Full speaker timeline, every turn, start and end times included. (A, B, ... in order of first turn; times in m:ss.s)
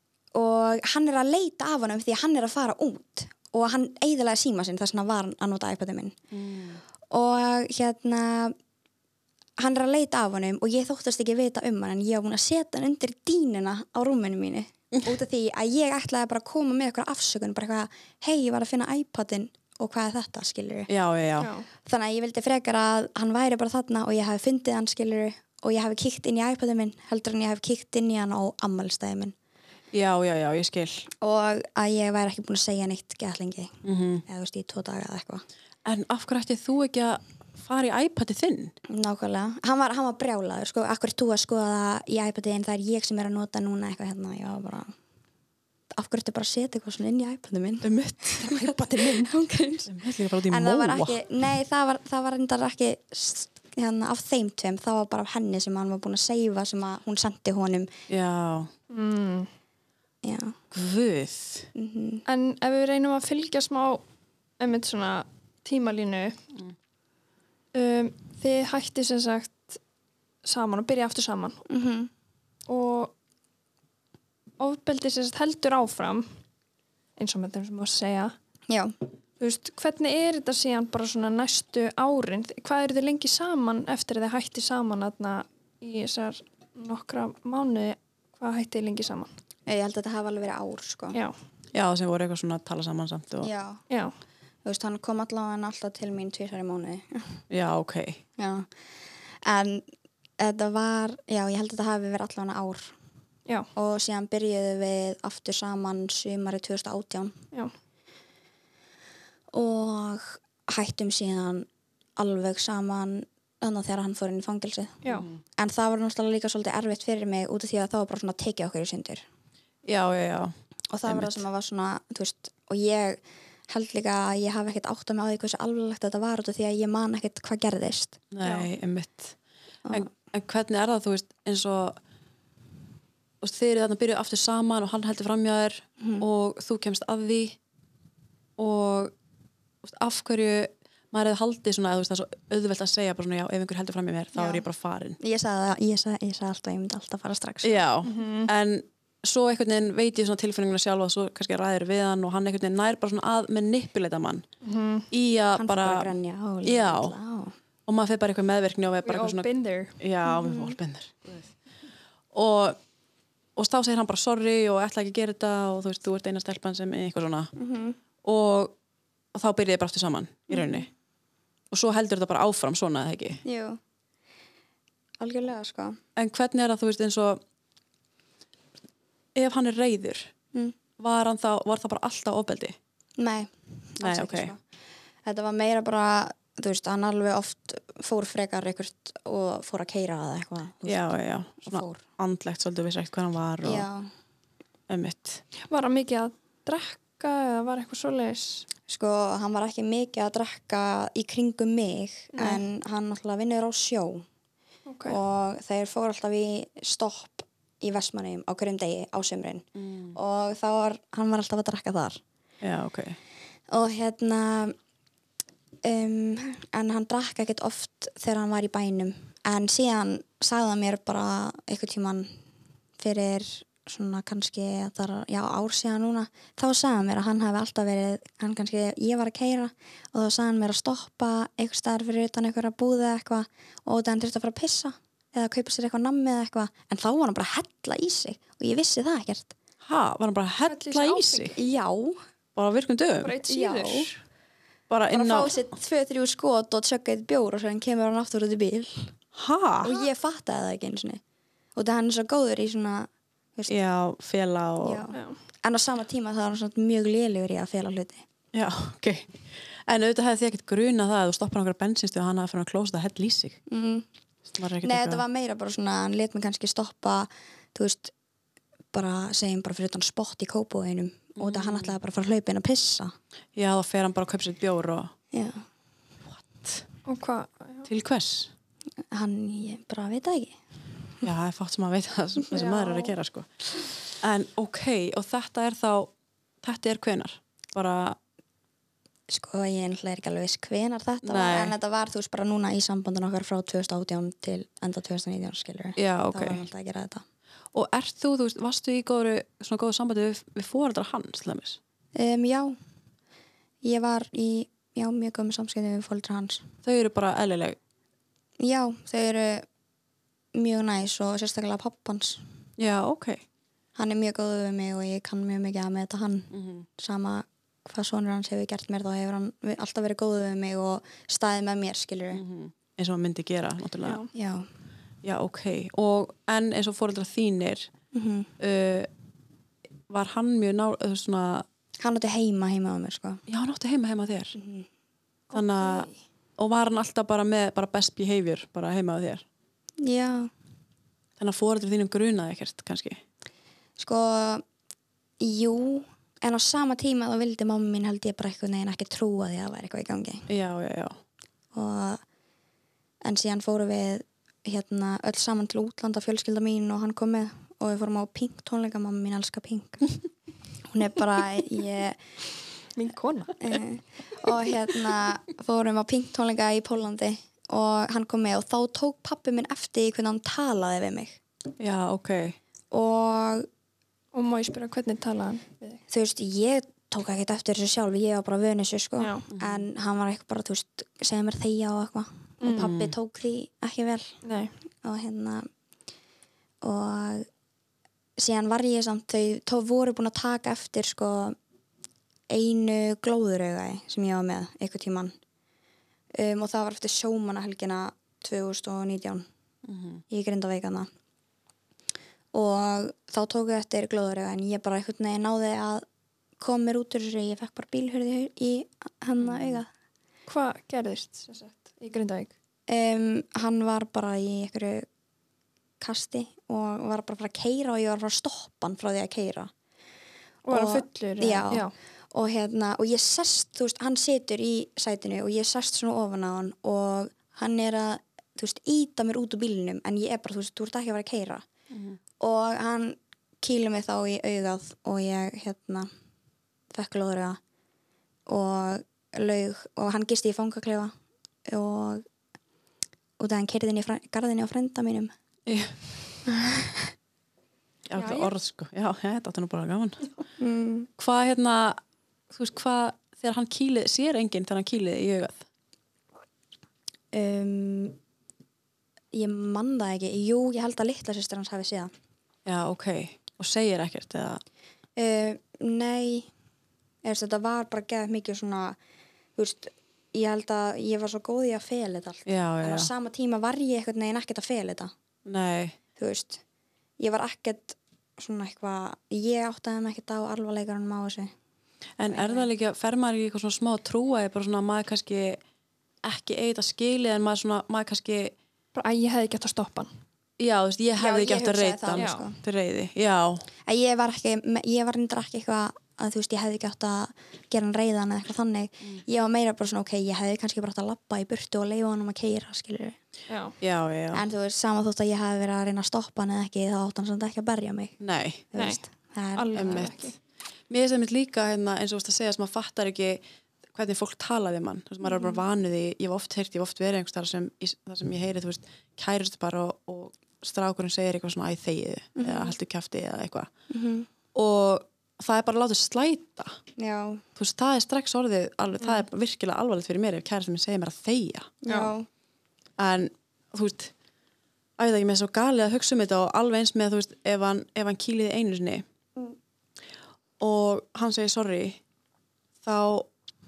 0:00.3-0:06.2 A
0:06.3-0:06.8 B
0:07.1-0:08.5 A
0:09.6-0:20.9 A
0:20.9-0:21.5 B
0:21.4-0:21.7 C
0:21.8-0:29.4 A
0:29.9-0:31.0 B
0:31.2-0:33.8 A
0:33.8-0:34.2 B
0:34.2-0:35.4 A
0:35.8-0:38.7 B
0:38.9-0:44.9 A
0:45.9-0:49.9 A
0:47.8-0:49.3 B
0:49.9-0:51.2 B
0:50.5-0:57.9 A
0:58.1-0:58.7 B
0:58.9-0:59.5 C
1:00.2-1:00.6 A
1:00.7-1:01.7 B
1:01.8-1:02.2 A
1:02.2-1:04.0 C
1:04.6-1:06.4 C
1:07.7-1:09.8 C
1:10.4-1:11.6 C
1:11.7-1:12.1 A
1:12.7-1:13.1 C
1:14.6-1:16.3 C
1:17.2-1:18.3 C
1:18.7-1:19.0 A
1:19.4-1:29.3 C
1:29.7-1:31.2 A
1:31.7-1:33.5 B
1:33.4-1:33.8 A
1:34.6-1:37.4 A
1:37.5-1:38.2 B
1:38.4-1:38.7 A
1:39.4-1:39.9 A
1:40.4-1:42.9 A
1:43.8-1:47.4 A
1:49.5-1:55.0 A
1:55.1-1:55.4 B
1:55.6-1:59.2 A
1:59.8-2:00.5 B
2:00.9-2:08.2 A
2:01.0-2:01.4 B
2:08.3-2:09.4 B
2:08.4-2:08.7 C
2:09.9-2:12.0 B
2:13.4-2:17.6 B
2:18.6-2:19.1 B
2:19.8-2:25.2 B
2:24.4-2:24.6 A
2:25.2-2:27.8 A
2:27.6-2:34.4 B
2:28.0-2:28.5 C
2:34.6-2:35.1 C
2:35.1-2:36.1 B
2:35.6-2:37.5 A
2:36.6-2:37.1 B
2:37.9-2:39.5 B
2:39.0-2:40.0 C
2:40.0-2:41.5 B
2:40.2-2:40.8 A
2:42.3-2:42.8 B
2:43.6-2:47.5 B
2:47.6-2:48.0 A
2:48.2-2:48.7 B
2:49.3-2:50.9 B
2:50.5-2:50.8 A
2:51.7-2:53.4 B
2:53.4-2:53.8 A
2:55.2-2:56.0 A
2:56.2-2:57.4 B
2:59.4-3:00.3 B
3:01.0-3:02.8 B
3:03.2-3:04.6 A
3:04.0-3:04.5 B
3:05.2-3:12.0 A
3:10.9-3:13.9 B
3:13.6-3:14.1 A
3:14.9-3:15.4 B
3:15.6-3:18.7 C
3:18.9-3:24.2 A
3:22.3-3:22.6 C
3:24.9-3:25.2 C
3:25.0-3:32.2 A
3:29.8-3:30.2 B
3:32.6-3:33.2 B
3:33.7-3:34.8 A
3:35.8-3:42.3 A
3:43.0-3:59.5 A
3:59.8-4:01.5 B
4:00.7-4:01.6 C
4:01.6-4:02.2 A
4:02.6-4:03.4 B
4:03.2-4:04.2 C
4:03.5-4:04.1 A
4:04.9-4:05.6 B
4:05.1-4:09.1 A
4:09.4-4:10.0 B
4:09.8-4:11.2 A
4:11.8-4:13.7 A
4:13.7-4:15.0 B
4:14.8-4:18.2 A
4:15.1-4:15.4 C
4:18.5-4:23.6 B
4:23.7-4:24.1 A
4:24.5-4:25.2 B
4:24.8-4:28.1 A
4:28.9-4:33.1 A
4:31.4-4:31.9 B
4:33.6-4:35.1 B
4:35.3-4:35.6 A
4:36.3-4:36.8 B
4:37.0-4:37.9 C
4:37.9-4:38.5 B
4:39.1-4:40.6 A
4:41.2-4:46.1 B
4:42.5-4:43.1 C
4:46.6-4:48.2 B
4:49.3-4:57.2 A
4:51.2-4:51.8 B
4:56.0-4:56.6 B
4:57.7-5:01.8 B
5:02.1-5:02.8 A
5:03.8-5:06.7 A
5:06.8-5:07.8 B
5:08.6-5:09.6 A
5:10.5-5:12.4 A
5:12.8-5:13.4 B
5:14.0-5:22.4 A
5:16.5-5:16.9 B
5:22.3-5:24.2 B
5:24.0-5:24.3 C
5:24.3-5:24.7 A
5:25.2-5:27.9 B
5:28.1-5:28.5 A
5:28.6-5:29.1 B
5:30.1-5:31.6 B
5:32.0-5:33.4 A
5:33.5-5:34.6 B
5:34.5-5:34.9 A
5:35.5-5:36.1 C
5:35.5-5:39.4 B
5:40.0-5:40.5 A
5:41.4-5:43.2 B
5:44.0-5:44.6 A
5:45.4-5:50.5 A
5:50.5-5:51.2 B
5:51.7-5:52.2 A
5:53.2-6:00.1 A
6:00.9-6:02.2 A
6:03.0-6:03.7 C
6:03.6-6:11.4 A
6:11.8-6:12.6 B
6:12.9-6:13.7 A
6:14.3-6:16.0 C
6:16.1-6:24.4 A
6:19.2-6:19.4 C
6:19.5-6:19.8 B
6:22.6-6:22.9 C
6:22.7-6:23.1 B
6:24.4-6:24.7 C
6:25.0-6:25.7 A
6:26.8-6:27.5 A
6:28.4-6:31.6 A
6:32.5-6:35.3 A
6:36.3-6:39.5 A
6:39.8-6:40.2 B
6:40.3-6:41.1 A
6:42.5-6:46.0 A
6:46.6-6:49.9 A
6:49.4-6:49.8 B
6:50.5-6:52.5 C
6:52.9-6:55.1 A
6:56.0-6:59.7 A
7:00.7-7:01.9 C
7:00.7-7:11.6 A
7:11.9-7:12.2 B
7:12.4-7:16.1 A
7:16.9-7:17.6 A
7:18.5-7:21.1 A
7:21.7-7:22.2 A
7:23.4-7:25.3 A
7:25.7-7:25.9 B
7:26.5-7:27.1 A
7:28.1-7:30.2 B
7:28.2-7:28.5 C
7:30.6-7:31.1 A
7:31.2-7:32.0 B
7:32.5-7:35.6 B
7:37.3-7:38.2 A
7:39.3-7:42.1 A
7:42.7-7:44.6 B
7:45.2-7:46.5 A
7:47.2-7:49.0 A
7:49.6-7:55.1 A
7:52.5-7:53.1 B
7:55.5-7:56.0 B
7:56.2-7:56.6 A
7:57.2-8:01.5 A
8:02.2-8:05.6 B
8:02.3-8:02.7 A
8:06.2-8:08.5 B
8:09.0-8:10.1 C
8:10.6-8:13.7 B
8:11.2-8:12.6 A
8:12.2-8:12.5 C
8:13.8-8:23.2 A
8:23.5-8:23.8 C
8:23.8-8:24.4 B
8:24.3-8:28.2 A
8:28.2-8:28.7 B
8:28.7-8:30.1 A
8:28.8-8:29.0 C
8:29.5-8:30.3 C
8:29.7-8:30.2 B
8:30.9-8:33.4 B
8:33.9-8:43.7 B
8:35.2-8:35.6 A
8:42.4-8:42.7 A
8:43.9-8:44.3 A
8:44.5-8:46.8 B
8:47.0-8:47.4 A
8:47.6-8:51.8 B
8:51.8-8:52.3 A
8:51.9-8:52.1 C
8:53.0-8:54.1 B
8:55.0-8:59.0 B
9:00.6-9:02.0 B
9:02.8-9:03.3 B